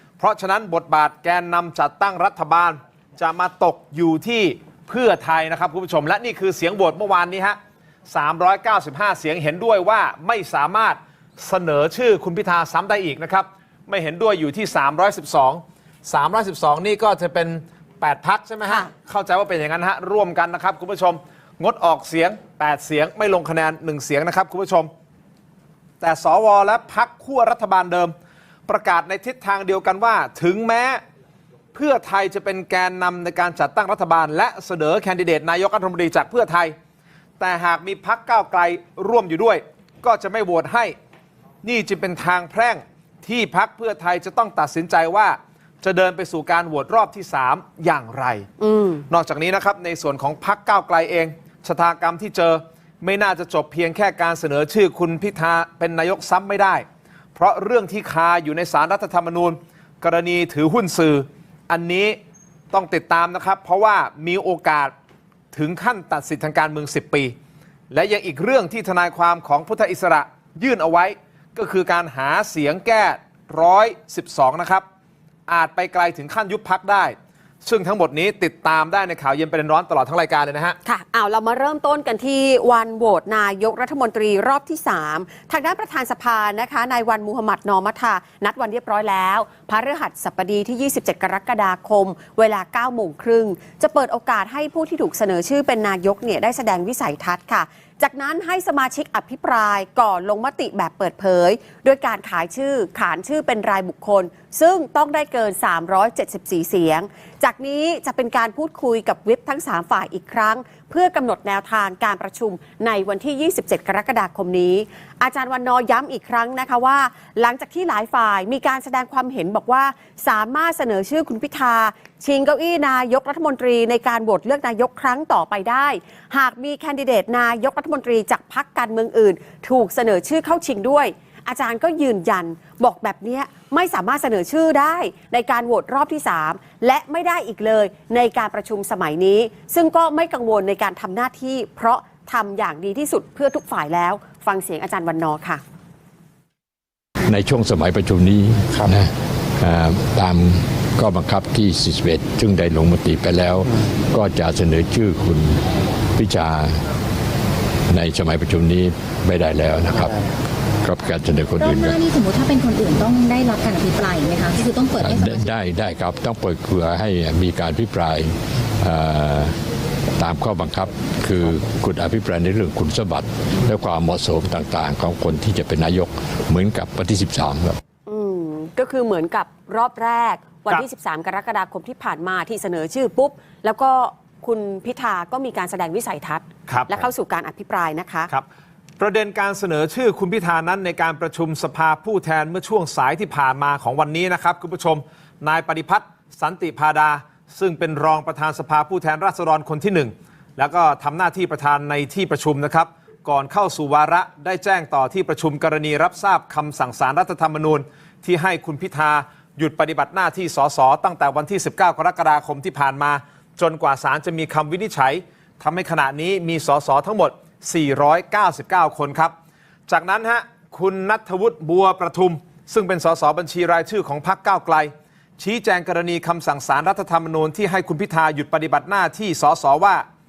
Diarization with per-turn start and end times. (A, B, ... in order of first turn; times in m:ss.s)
0:00.2-0:07.6 A
0:08.1-0:24.9 A
0:26.0-0:28.1 A
0:28.7-0:31.0 A
0:31.7-0:36.7 A
0:37.4-0:40.9 A
0:41.6-0:48.5 A
0:48.6-0:49.0 B
0:49.1-0:56.8 A
0:57.4-1:02.2 A
1:02.7-1:04.9 A
1:05.5-1:07.3 A
1:07.9-1:14.8 A
1:15.5-1:20.8 A
1:20.8-2:25.6 B
2:27.3-2:36.8 C
2:37.9-2:40.2 C
2:40.8-2:42.0 C
2:41.6-2:45.5 D
2:45.0-2:49.6 C
2:50.2-2:57.8 C
2:58.0-3:08.3 B
3:06.7-3:07.1 A
3:09.0-3:39.3 A
3:39.9-3:50.0 A